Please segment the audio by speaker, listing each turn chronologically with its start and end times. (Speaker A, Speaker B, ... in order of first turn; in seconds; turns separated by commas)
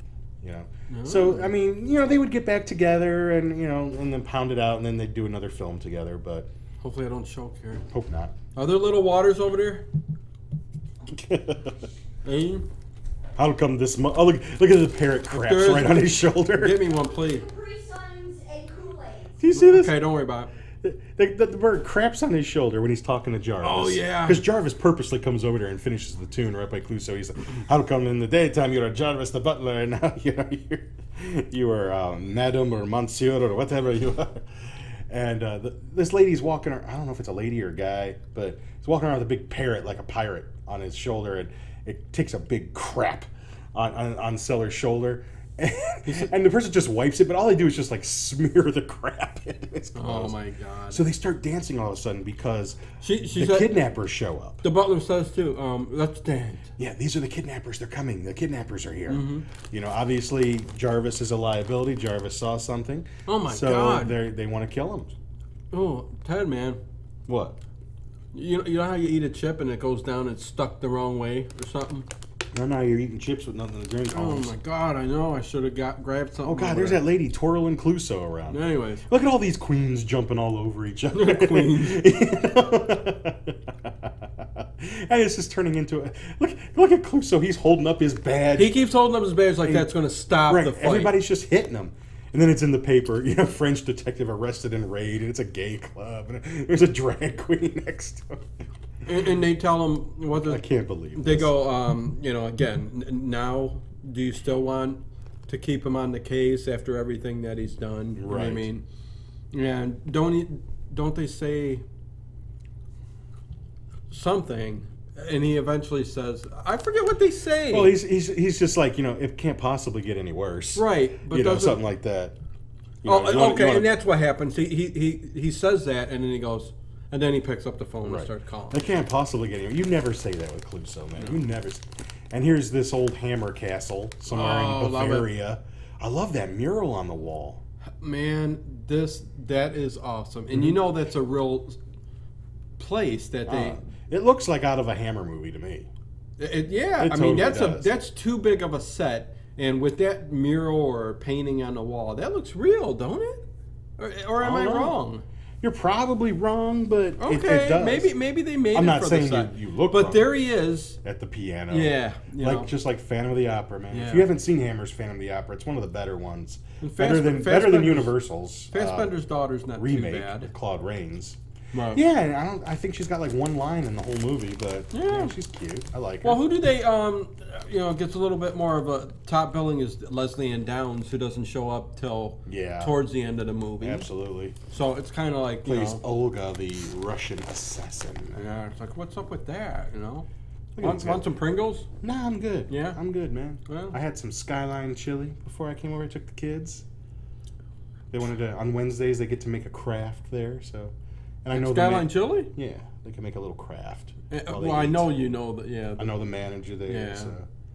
Speaker A: 0.4-6.5, Speaker B: 0.9-1.5, Speaker B: 6.8-7.8, Speaker A: 7.9-8.3, Speaker B: 8.5-9.8, Speaker A: 11.1-11.8, Speaker B: 12.2-12.7, Speaker A: 13.3-16.9, Speaker B: 15.3-17.4, Speaker C: 17.0-19.4, Speaker A: 19.4-20.1, Speaker B: 19.5-20.5, Speaker A: 20.8-50.4, Speaker B: 23.6-24.4, Speaker B: 46.0-46.3, Speaker B: 49.9-51.0, Speaker A: 50.9-54.6, Speaker B: 53.0-53.8, Speaker B: 54.6-56.7, Speaker A: 56.8-65.1, Speaker B: 59.1-59.5, Speaker B: 63.3-64.2, Speaker B: 65.7-66.8, Speaker A: 67.2-67.6, Speaker B: 68.3-72.1, Speaker A: 72.5-74.5, Speaker B: 74.1-77.0, Speaker A: 76.4-88.8, Speaker B: 78.5-79.0, Speaker B: 81.1-82.1, Speaker B: 88.5-91.2, Speaker A: 89.6-98.5, Speaker B: 99.0-100.6, Speaker A: 100.4-101.5, Speaker B: 101.1-108.8, Speaker A: 108.2-108.7, Speaker B: 109.5-111.8, Speaker B: 114.1-118.0, Speaker A: 117.7-122.3, Speaker B: 120.7-121.8, Speaker A: 123.0-123.9, Speaker B: 123.0-128.8, Speaker A: 128.0-137.6, Speaker B: 131.2-131.4, Speaker B: 134.3-135.3, Speaker B: 138.0-141.8, Speaker A: 140.5-140.8, Speaker B: 142.8-143.8, Speaker A: 143.5-145.9, Speaker B: 146.4-153.4, Speaker A: 147.0-147.9, Speaker B: 154.0-155.2, Speaker A: 154.4-155.0, Speaker A: 155.6-158.2, Speaker B: 157.2-161.0, Speaker A: 158.7-160.3, Speaker A: 161.0-169.2, Speaker B: 161.7-162.7, Speaker B: 163.9-164.3, Speaker B: 166.8-168.1, Speaker B: 168.7-170.5, Speaker A: 169.7-171.4, Speaker B: 171.7-172.0, Speaker A: 171.9-176.4, Speaker B: 174.9-175.3, Speaker B: 176.2-184.1, Speaker A: 182.4-182.9, Speaker A: 183.8-184.6, Speaker B: 184.7-186.0, Speaker A: 185.6-188.4, Speaker B: 188.3-190.3, Speaker A: 190.7-191.3, Speaker B: 190.8-191.9, Speaker A: 192.0-196.8, Speaker B: 192.7-193.0, Speaker B: 193.7-193.9, Speaker A: 198.1-205.1, Speaker B: 201.5-202.5, Speaker B: 204.3-206.1, Speaker A: 206.0-207.5, Speaker B: 206.8-207.3